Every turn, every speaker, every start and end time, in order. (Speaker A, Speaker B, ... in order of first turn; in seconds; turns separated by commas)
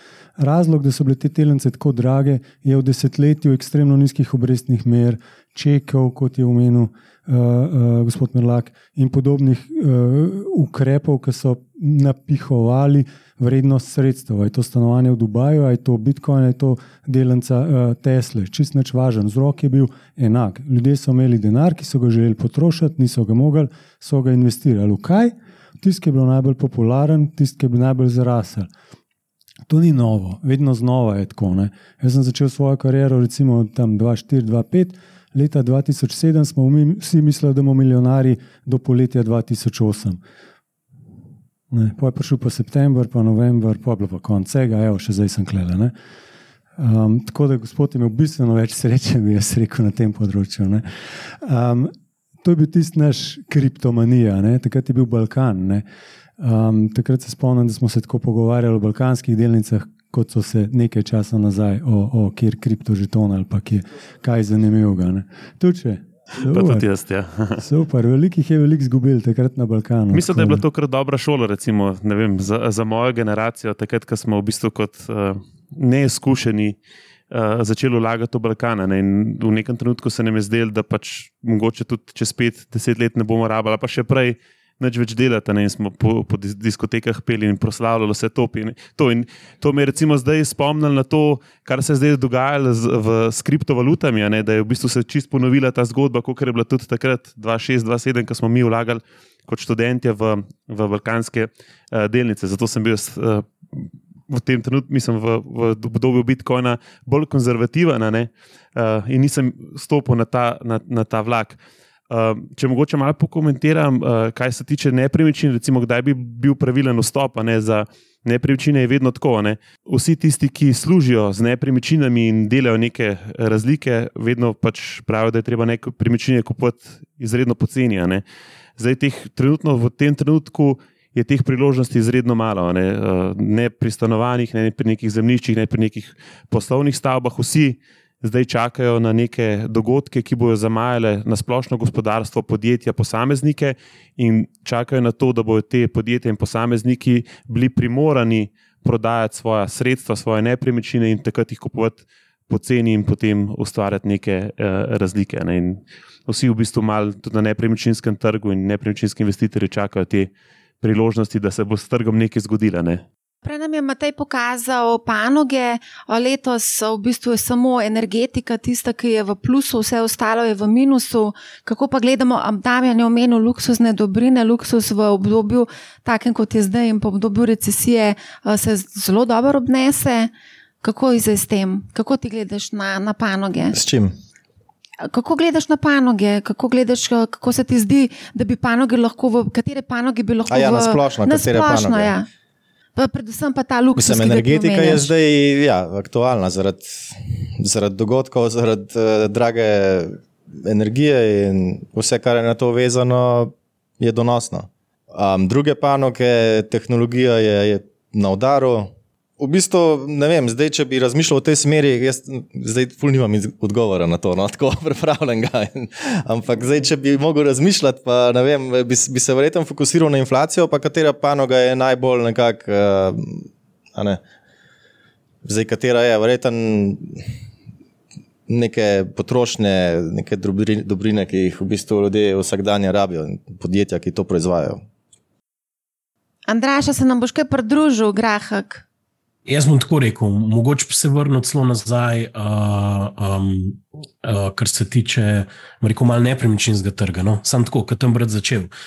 Speaker A: 0.4-28.7, Speaker A: 29.7-40.2, Speaker A: 41.7-45.9, Speaker A: 46.8-55.9, Speaker A: 56.4-66.9, Speaker B: 66.4-67.6, Speaker A: 67.6-70.7, Speaker B: 70.1-76.8, Speaker B: 77.3-128.2, Speaker B: 128.8-163.0, Speaker C: 163.4-180.3, Speaker C: 180.8-183.8, Speaker D: 183.7-184.1, Speaker C: 185.1-192.3, Speaker D: 190.5-192.1, Speaker C: 193.0-195.1, Speaker D: 194.0-224.2, Speaker D: 225.4-227.2, Speaker D: 228.5-234.8, Speaker C: 236.5-238.8, Speaker E: 239.5-248.7